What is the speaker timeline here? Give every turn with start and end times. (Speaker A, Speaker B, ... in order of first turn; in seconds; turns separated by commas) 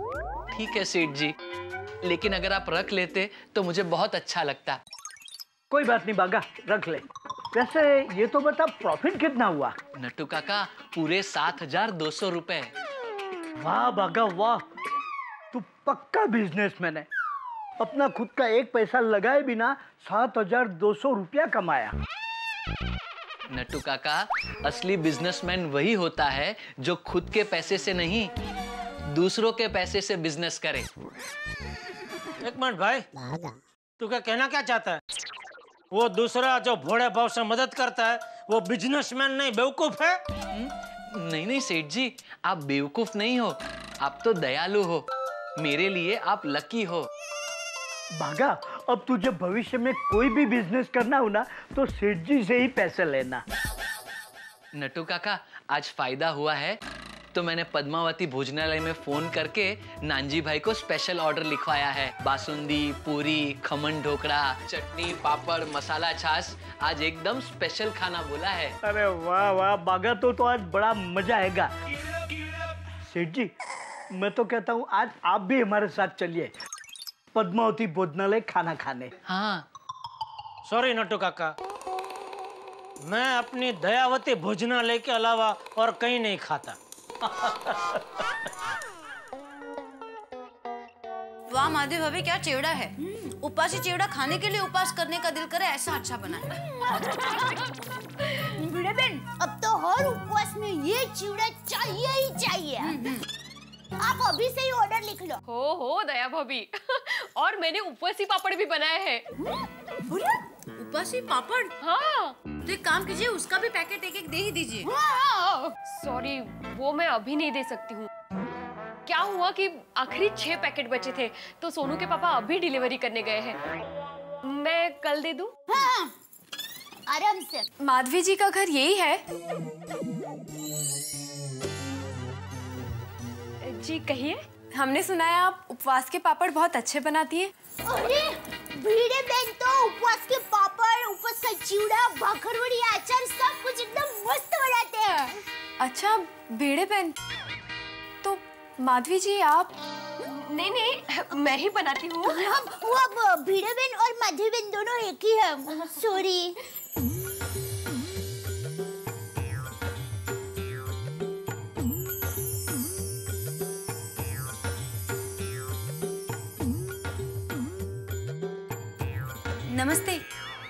Speaker A: 0.5-1.4, Speaker A: 2.0-4.8, Speaker B: 5.7-9.8, Speaker A: 10.0-12.7, Speaker B: 13.6-14.6, Speaker B: 15.5-17.1, Speaker B: 17.8-21.9, Speaker A: 23.5-28.3, Speaker A: 29.1-30.9, Speaker C: 32.4-33.0, Speaker C: 34.0-35.0, Speaker C: 35.9-40.2, Speaker A: 40.5-45.1, Speaker A: 45.6-47.1, Speaker B: 48.2-53.4, Speaker A: 54.7-56.8, Speaker A: 57.3-68.8, Speaker B: 68.8-71.7, Speaker B: 73.1-73.5, Speaker B: 74.1-76.5, Speaker B: 77.3-79.1, Speaker A: 79.3-79.7, Speaker C: 80.7-81.5, Speaker C: 83.0-86.8, Speaker D: 91.5-97.0, Speaker E: 96.6-97.5, Speaker E: 98.6-103.0, Speaker D: 102.8-103.2, Speaker E: 104.0-105.4, Speaker F: 105.5-109.2, Speaker D: 110.1-111.7, Speaker F: 111.8-112.4, Speaker D: 112.6-114.9, Speaker E: 114.8-115.7, Speaker F: 115.9-118.1, Speaker F: 119.1-123.6, Speaker F: 124.5-125.5, Speaker E: 125.7-126.1, Speaker E: 127.1-127.7, Speaker G: 127.8-129.2, Speaker F: 133.7-134.4, Speaker G: 134.7-137.5, Speaker E: 137.9-145.4, Speaker G: 145.8-147.2, Speaker G: 148.2-149.7, Speaker F: 150.2-152.4, Speaker E: 152.2-156.6, Speaker D: 169.7-170.2